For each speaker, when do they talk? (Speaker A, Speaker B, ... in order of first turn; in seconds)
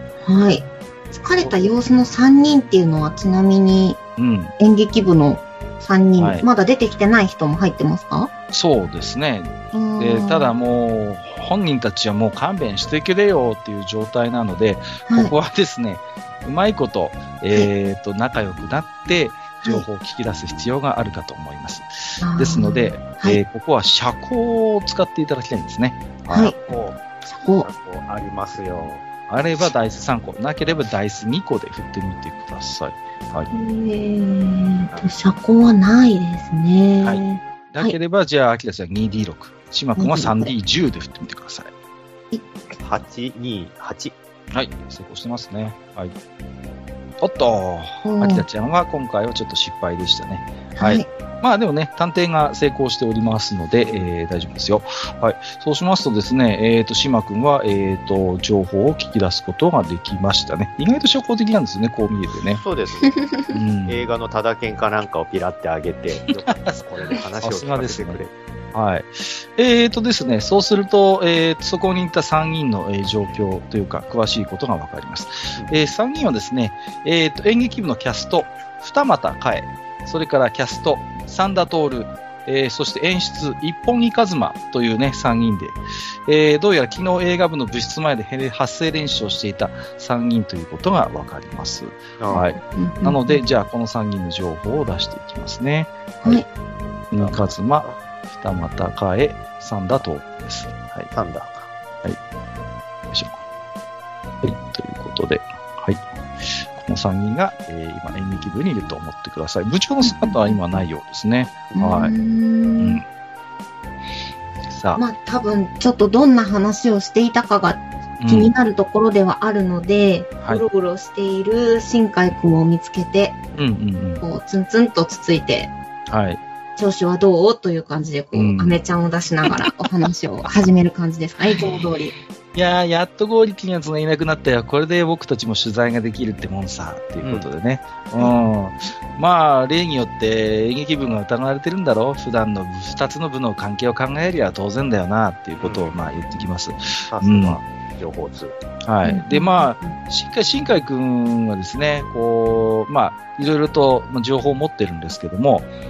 Speaker A: 0.2-4.0, 4.6-8.3, 9.7-10.6, 15.1-15.3, 22.2-23.4, 26.3-26.6, 27.2-27.7, 33.5-38.0, 40.0-40.5, 42.3-42.7, 48.0-48.5, 50.8-51.0, 92.3-93.4, 110.0-110.6, 111.8-113.0, 115.0-123.4, 124.2-125.7, 126.8-132.1, 149.0-149.9
Speaker B: 4.2-4.5, 6.2-6.5, 8.5-26.6, 29.3-33.5, 37.0-41.7, 44.5-46.1, 47.2-62.6, 63.5-64.0, 66.3-66.8, 67.4-68.2, 68.7-96.4, 97.1-101.1, 103.1-103.4, 104.4-112.1, 114.7-115.0, 118.2-118.5, 123.6-124.2, 126.1-126.4, 128.3-128.8, 131.5-131.9, 132.5-147.6, 148.8-155.7
Speaker C: 26.5-27.0, 27.6-29.0, 42.8-44.1, 62.5-63.3, 63.9-68.3, 92.2-92.4, 97.1-98.0, 101.1-101.7, 111.7-112.0, 137.2-137.5, 145.6-145.9, 147.1-148.6